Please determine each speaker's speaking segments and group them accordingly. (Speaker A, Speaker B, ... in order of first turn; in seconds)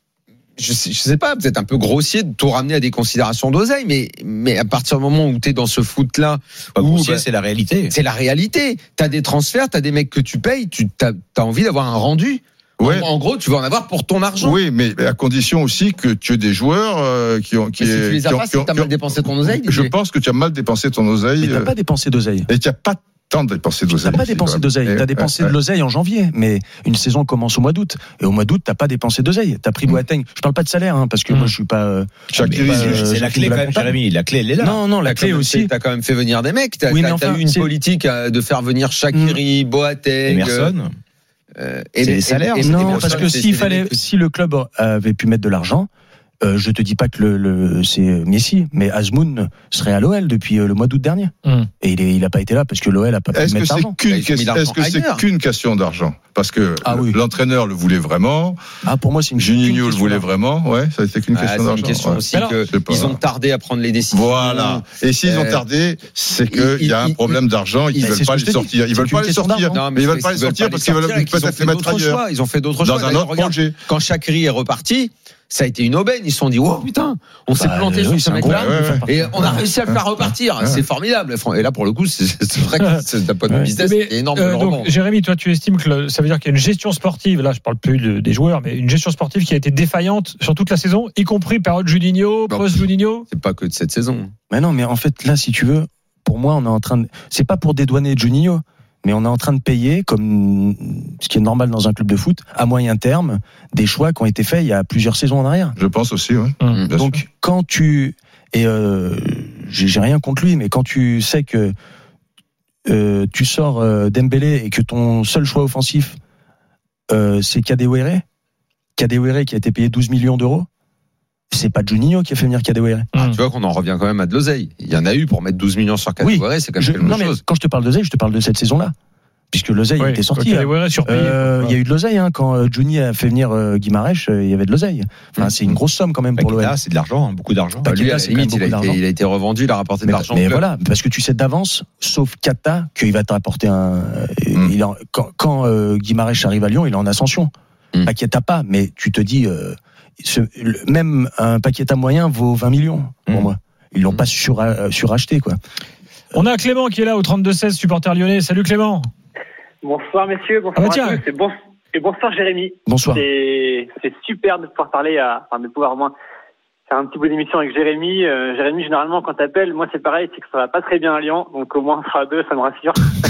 Speaker A: 0.6-7.2, 7.9-14.6, 17.8-19.9, 35.0-40.7, 41.6-44.0, 54.1-55.2, 61.3-65.6, 66.5-67.4, 69.7-84.9, 92.5-94.3, 123.2-127.4, 137.8-140.6
Speaker B: 6.8-7.9, 32.4-34.8, 40.3-40.9, 42.0-43.3, 136.4-137.9
Speaker C: 12.8-13.1, 14.4-21.7, 22.5-25.6, 32.3-33.1, 53.3-58.6, 59.4-63.2, 64.1-72.2, 72.8-73.8, 78.4-80.0, 105.8-107.2
Speaker D: 21.4-22.5, 23.9-33.9, 34.6-35.7, 36.9-37.7, 39.1-39.4, 42.6-45.9, 46.4-54.0, 56.8-57.2, 58.9-60.3, 68.0-69.8, 77.6-79.6, 83.5-83.7, 94.5-105.8, 107.0-111.7, 112.9-116.2, 117.1-118.2, 119.0-120.7, 121.5-123.1, 126.2-128.9, 129.5-136.8, 137.8-139.0, 140.0-147.5, 148.0-155.6, 162.9-163.2
Speaker E: 51.4-51.7, 62.3-62.7, 83.8-93.3, 123.1-123.4, 130.0-131.8, 156.3-159.1, 160.8-161.2
Speaker F: 159.8-166.2, 166.9-173.1